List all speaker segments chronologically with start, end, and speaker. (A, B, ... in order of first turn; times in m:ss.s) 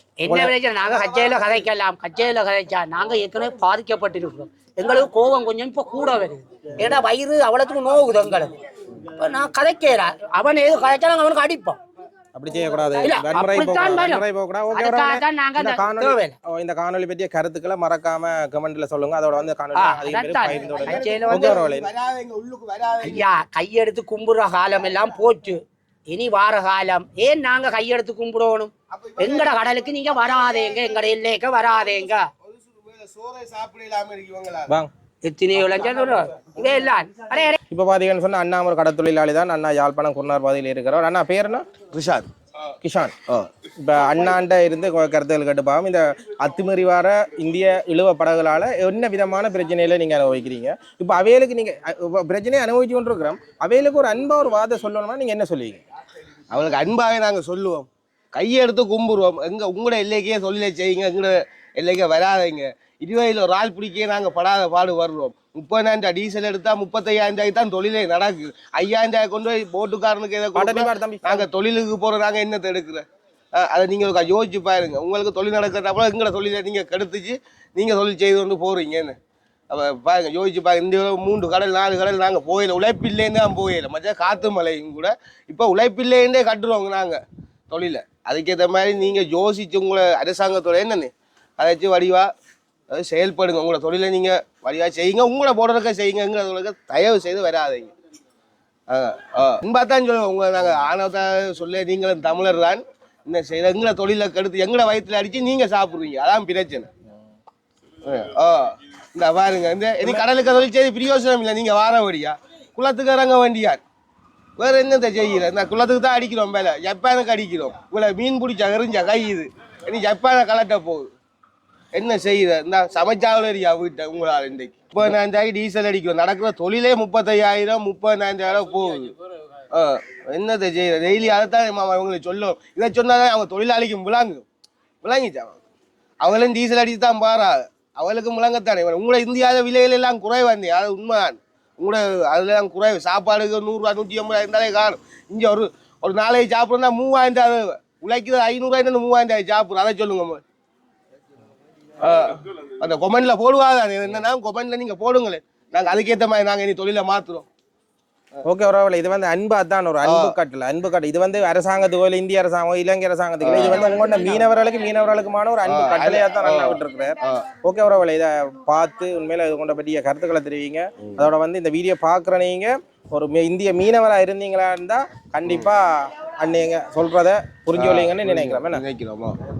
0:00.2-0:11.8 A
0:00.3-0:00.5 B
0:12.3-0:21.9 B
0:13.0-0:16.4 A
0:19.7-0:21.6 A
0:20.7-0:23.2 C
0:23.0-0:32.3 A
0:28.9-0:29.6 C
0:30.2-0:31.0 C
0:32.4-0:34.7 C
0:35.2-0:37.6 A
0:37.7-0:41.7 B
0:41.9-0:42.3 C
0:42.8-0:43.2 B
0:43.7-0:55.8 B
0:56.5-1:19.2 C
1:10.5-1:11.4 B
1:19.7-1:32.3 C
1:32.9-1:37.9 C
1:38.9-1:46.9 C
1:48.0-1:53.8 C
1:54.6-2:01.1 C
2:01.9-2:09.1 C
2:09.7-2:14.4 C
2:15.0-2:15.6 C
2:16.2-2:30.4 C
2:32.0-2:37.4 C
2:38.4-2:58.8 B
2:40.0-2:40.4 C
2:43.4-2:44.4 C
2:45.6-2:47.4 C
2:57.7-2:59.4 C